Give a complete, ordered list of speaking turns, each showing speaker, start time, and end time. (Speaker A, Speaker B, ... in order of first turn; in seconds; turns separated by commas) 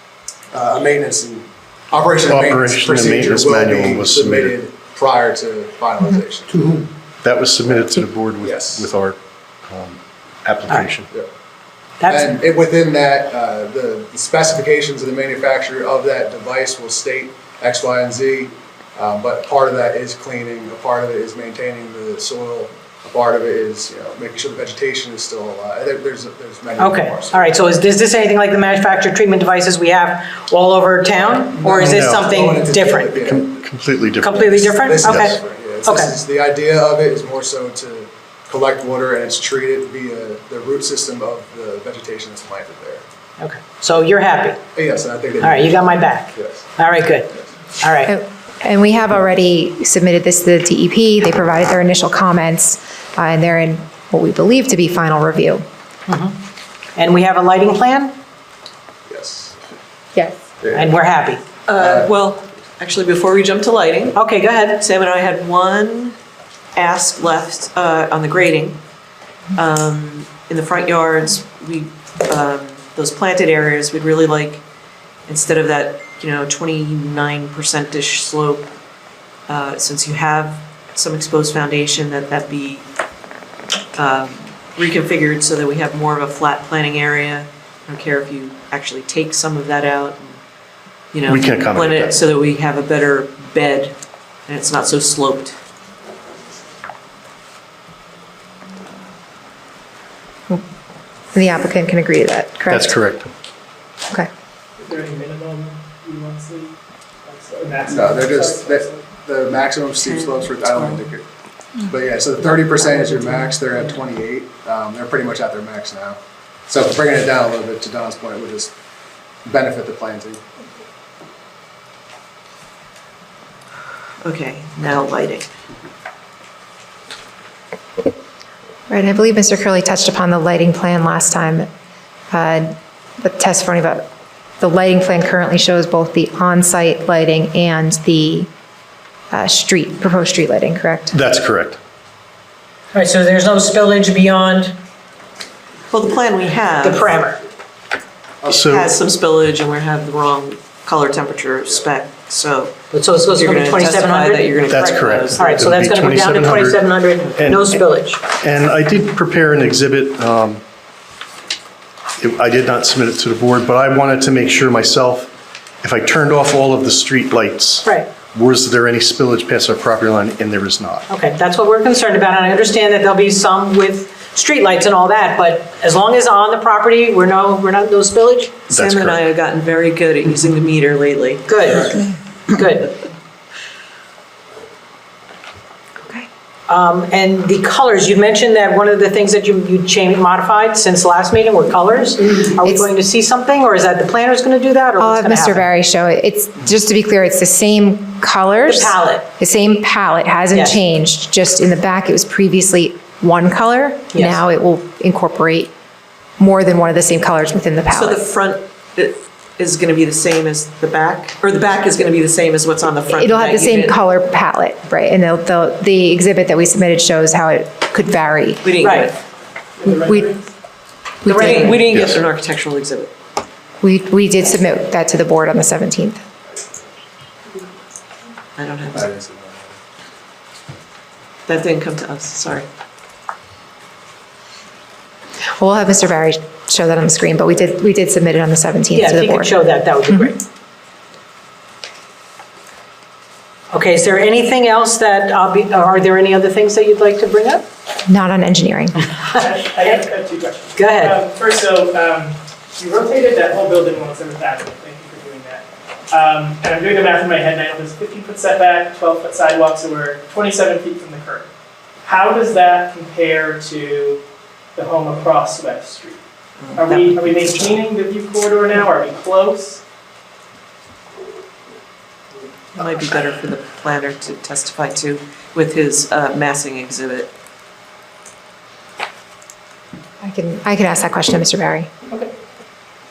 Speaker A: 0.5-6.7, Speaker B: 2.3-4.6, Speaker B: 7.2-11.1, Speaker A: 8.4-8.9, Speaker C: 12.0-12.3, Speaker A: 12.1-27.5, Speaker C: 26.8-33.3, Speaker A: 31.2-33.5, Speaker B: 31.8-32.2, Speaker B: 33.1-35.4, Speaker C: 34.2-36.1, Speaker A: 34.9-43.0, Speaker C: 43.4-44.6, Speaker A: 44.8-46.7, Speaker C: 45.4-48.1, Speaker D: 48.1-55.6, Speaker C: 56.1-56.4, Speaker C: 57.0-58.2, Speaker A: 59.1-59.6, Speaker A: 60.6-60.9, Speaker C: 60.8-61.4, Speaker E: 61.7-64.2, Speaker A: 61.8-62.1, Speaker C: 64.2-64.8, Speaker E: 64.7-66.2, Speaker E: 66.8-68.8, Speaker E: 69.5-74.6, Speaker E: 75.3-78.7, Speaker E: 79.5-82.8, Speaker E: 84.0-90.3, Speaker E: 91.1-94.0, Speaker B: 91.3-92.2, Speaker E: 94.5-95.6, Speaker D: 101.3-103.0, Speaker B: 102.7-103.3, Speaker F: 104.8-106.7, Speaker F: 107.3-109.0, Speaker A: 107.9-111.2, Speaker E: 110.0-111.0, Speaker A: 111.8-118.7, Speaker A: 119.5-120.4, Speaker E: 124.2-125.5, Speaker D: 128.9-131.7, Speaker D: 132.3-134.1, Speaker D: 134.6-138.5, Speaker D: 139.3-141.1, Speaker B: 141.1-141.8, Speaker C: 142.9-144.8, Speaker E: 145.9-147.1, Speaker C: 146.8-147.4, Speaker B: 148.5-148.9, Speaker E: 148.5-152.7, Speaker C: 152.9-158.2, Speaker E: 153.3-155.5, Speaker B: 154.7-157.8, Speaker B: 158.3-160.6, Speaker B: 162.2-165.3, Speaker B: 165.8-171.1, Speaker C: 167.8-168.1, Speaker C: 171.1-178.6, Speaker B: 178.7-179.2, Speaker E: 178.7-181.5, Speaker C: 181.5-183.0, Speaker C: 186.7-195.7, Speaker D: 195.0-205.7, Speaker C: 198.6-199.3, Speaker C: 200.5-200.8, Speaker C: 204.1-204.4, Speaker D: 206.4-208.2, Speaker E: 207.9-214.0, Speaker D: 213.1-218.6, Speaker E: 218.6-219.2, Speaker C: 218.8-219.1, Speaker F: 219.8-220.4, Speaker D: 219.8-220.3, Speaker D: 221.2-221.8, Speaker C: 221.3-222.2, Speaker E: 221.3-223.1, Speaker D: 223.8-226.2, Speaker E: 228.6-229.1, Speaker A: 228.9-229.8, Speaker E: 231.5-232.7, Speaker D: 235.6-239.5, Speaker C: 238.9-240.4, Speaker D: 240.1-240.3, Speaker C: 243.7-247.7, Speaker D: 248.1-249.1, Speaker F: 249.4-261.5, Speaker C: 250.8-251.2, Speaker F: 262.1-264.2, Speaker F: 264.8-266.2, Speaker E: 266.6-267.8, Speaker F: 266.8-269.8, Speaker E: 272.8-277.3, Speaker D: 280.2-281.9